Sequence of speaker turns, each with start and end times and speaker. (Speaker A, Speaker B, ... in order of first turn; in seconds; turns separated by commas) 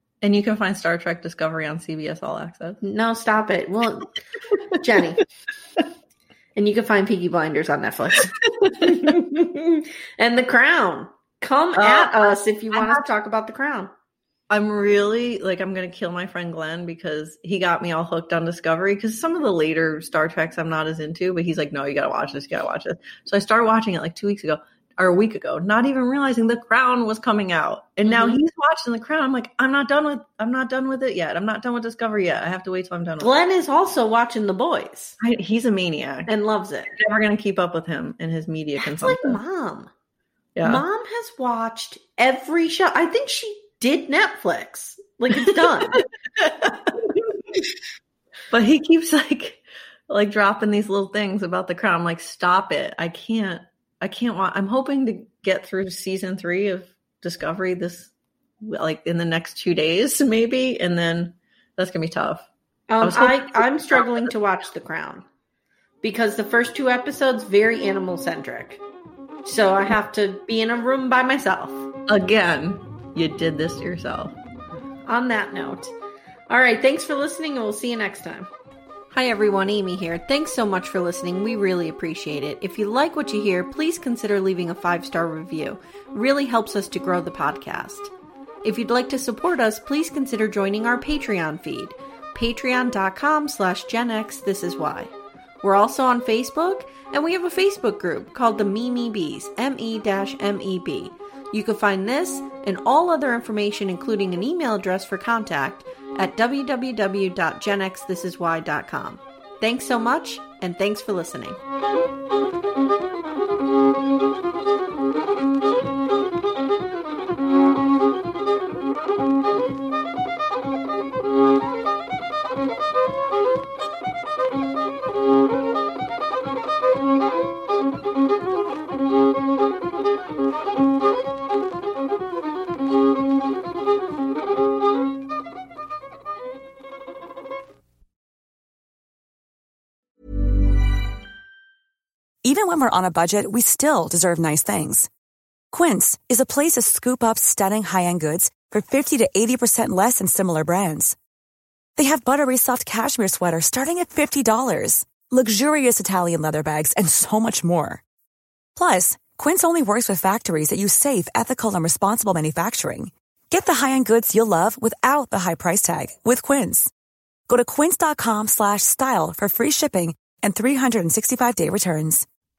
Speaker A: 0.2-2.8, Speaker B: 2.8-4.2, Speaker B: 4.8-5.2, Speaker B: 6.5-13.9, Speaker A: 8.5-9.1, Speaker A: 11.8-13.1, Speaker A: 14.5-33.3, Speaker B: 28.0-28.4, Speaker B: 33.2-35.2, Speaker A: 35.2-36.3, Speaker B: 36.3-36.9, Speaker A: 36.9-39.4, Speaker B: 38.8-39.9, Speaker A: 40.5-40.8, Speaker B: 40.6-46.0, Speaker A: 45.4-45.7, Speaker A: 46.4-46.9, Speaker A: 48.5-62.5, Speaker B: 62.9-65.2, Speaker A: 63.0-64.3, Speaker B: 66.0-68.8, Speaker B: 69.4-71.9, Speaker A: 72.1-74.4, Speaker B: 75.0-75.9, Speaker B: 76.5-78.5, Speaker B: 79.1-88.1, Speaker B: 88.6-95.1, Speaker B: 95.6-111.6, Speaker C: 142.4-145.1, Speaker C: 145.7-151.2, Speaker C: 151.9-158.0, Speaker C: 158.8-166.9, Speaker C: 167.5-172.2